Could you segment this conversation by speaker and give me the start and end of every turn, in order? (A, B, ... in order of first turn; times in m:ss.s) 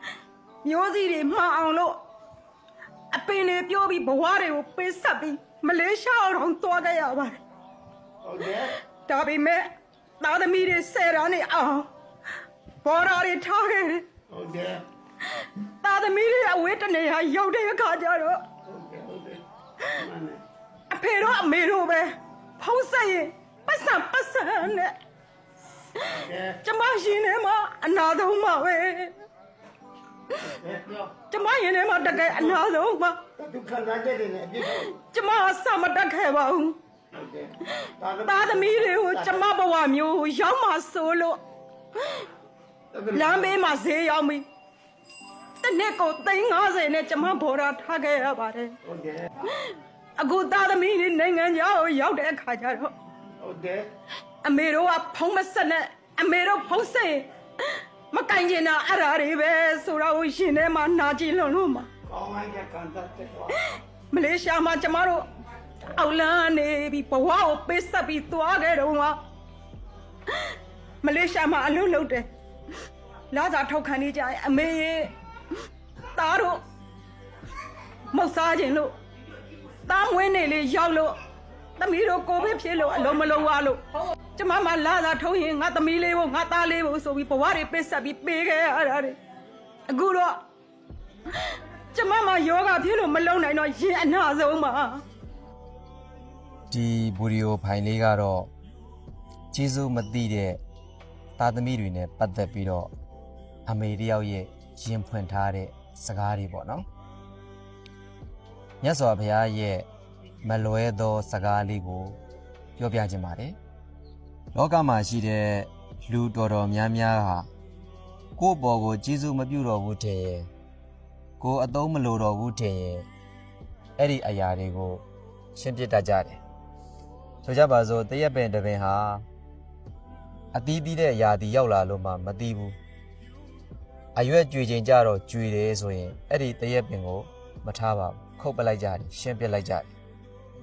0:00.6-0:02.0 A
0:03.1-0:07.4 A
0:08.2-0:08.7 B
0:09.0-0:11.9 A
0:12.8-0:14.0 A
0:14.3-0:14.8 B
0:15.3-0:18.4 A
0:18.6-0:20.4 B
0:20.9-0:24.9 A
0:25.9-0:29.2 A
0:26.1-0:26.6 B
0:30.4-0:31.1 B
0:31.3-0:33.2 A
0:32.1-0:32.6 B
0:33.4-0:34.9 B
0:34.7-0:36.8 A
0:37.1-0:39.4 B
0:37.7-0:41.4 A
0:42.0-0:42.3 A
0:42.9-0:43.5 B
0:43.1-0:44.4 A
0:45.6-0:48.8 A
0:48.8-0:49.4 B
0:49.4-0:52.9 A
0:53.4-0:53.9 B
0:54.4-1:01.9 A
1:02.1-1:03.6 B
1:03.5-1:05.3 A
1:05.8-1:09.2 A
1:10.3-1:12.3 A
1:13.3-1:15.1 A
1:16.1-1:16.6 A
1:18.1-1:19.0 A
1:19.8-1:21.2 A
1:21.8-1:29.2 A
1:29.9-1:30.4 A
1:31.3-1:35.0 A
1:36.7-1:38.5 C
1:39.5-1:40.6 C
1:41.4-1:42.9 C
1:43.6-1:46.8 C
1:48.8-1:49.9 C
1:50.4-1:52.2 C
1:52.8-1:53.6 C
1:54.5-1:57.5 C
1:58.4-2:00.5 C
2:01.4-2:03.1 C
2:04.0-2:06.4 C
2:07.4-2:09.2 C
2:10.5-2:12.8 C
2:14.1-2:19.9 C